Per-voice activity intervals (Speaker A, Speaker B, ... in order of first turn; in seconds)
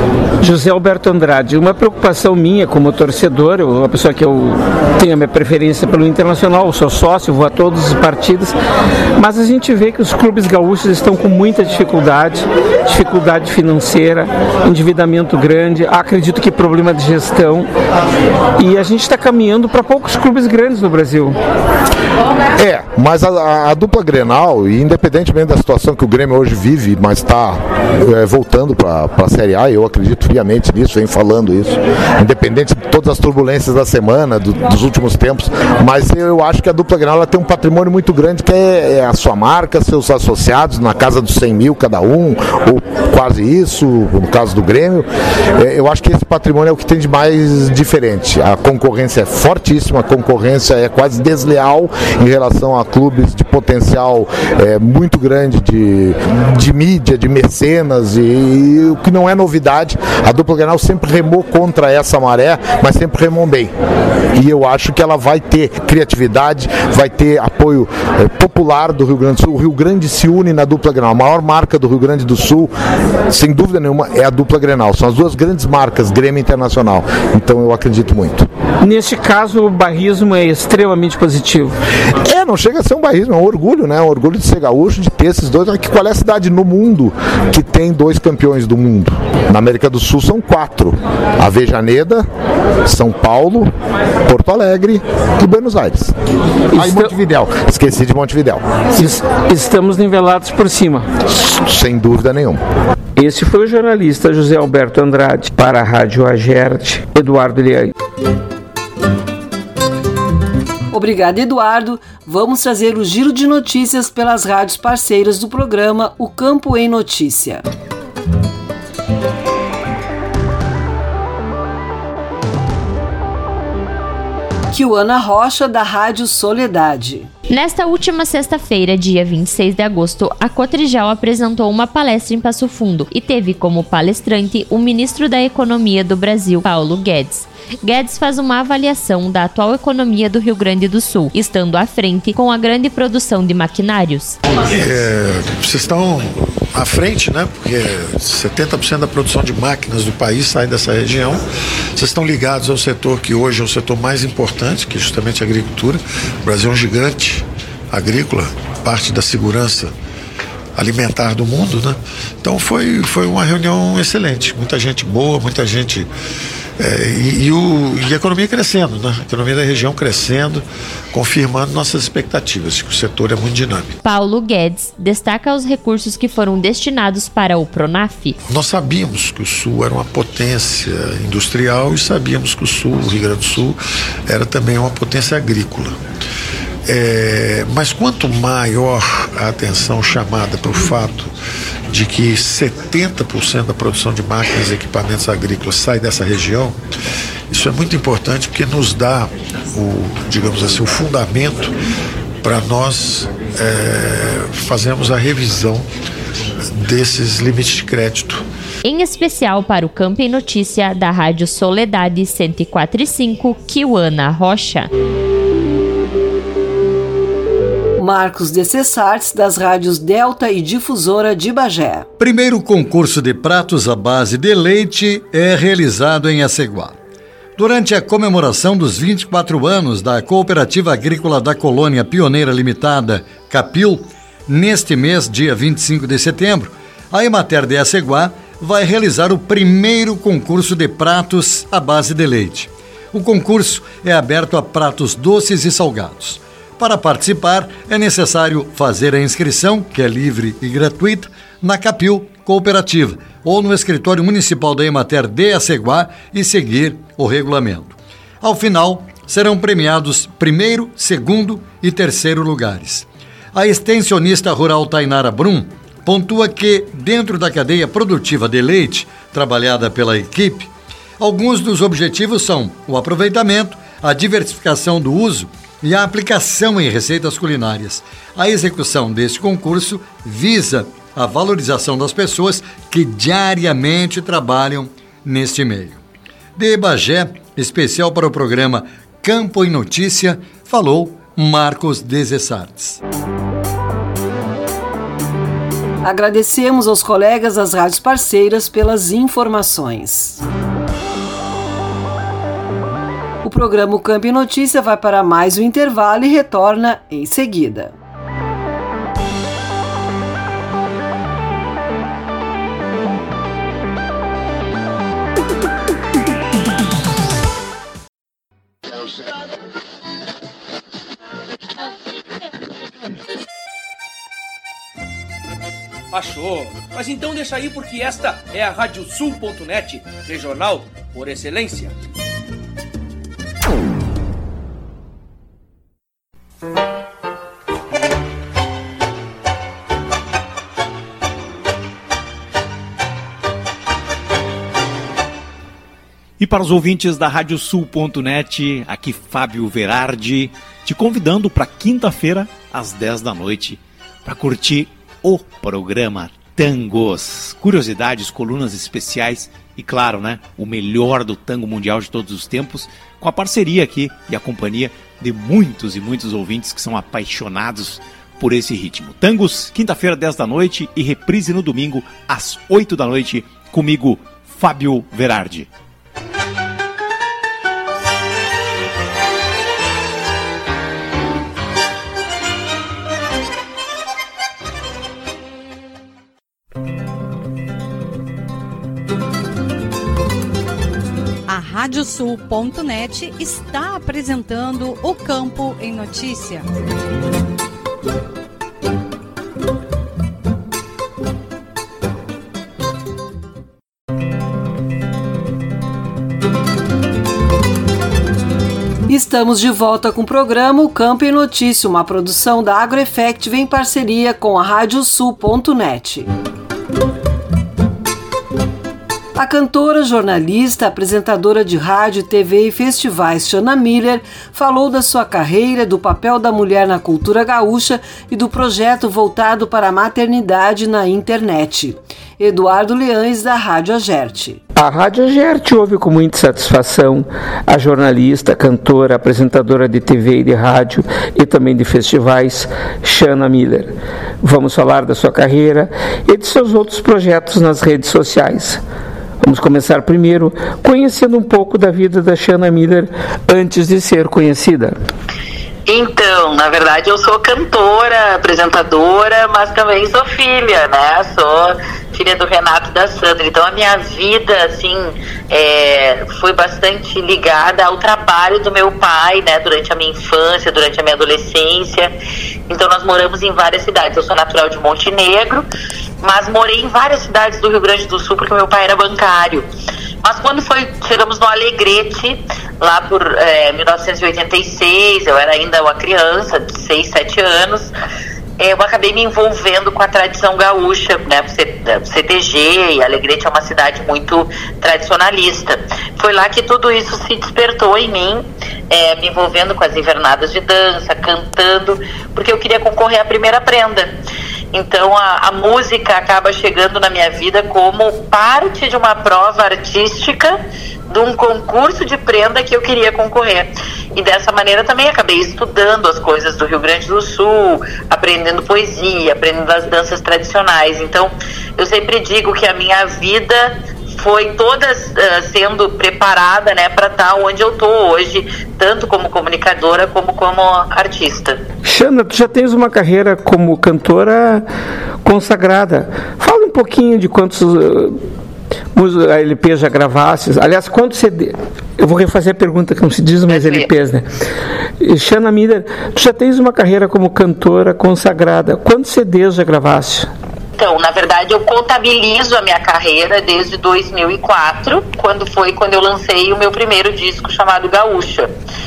Speaker A: 0.4-8.5, 9.2-17.7, 18.6-21.4, 78.8-81.8, 96.7-97.1, 98.9-101.1, 103.2-107.9, 434.8-448.8, 449.4-454.9, 531.8-534.6, 535.2-538.2, 538.9-544.3, 545.0-550.3
Speaker B: 22.5-63.7, 64.3-72.7, 73.3-78.5, 82.2-92.2, 92.8-93.7, 94.2-96.1, 96.7-98.6, 101.3-102.6
Speaker C: 110.9-117.6, 124.7-127.3, 218.0-222.1, 296.0-300.4, 303.4-307.9, 409.1-416.3, 419.3-434.6
Speaker D: 127.5-144.3, 174.0-178.4, 208.8-214.9
Speaker E: 144.6-151.4, 151.9-159.9, 160.8-166.1, 166.8-174.0, 178.4-185.9, 186.8-191.3, 191.9-196.8, 197.5-201.7, 202.4-205.9, 206.8-208.4
Speaker F: 222.2-226.9, 227.6-286.0, 286.6-293.0
Speaker G: 326.1-331.9
Speaker H: 346.4-375.7
Speaker I: 391.5-396.7
Speaker J: 455.9-472.1, 472.7-475.6, 476.2-479.6, 480.2-487.9, 488.6-504.1, 504.7-510.6, 511.1-531.6, 543.5-543.9, 550.8-558.5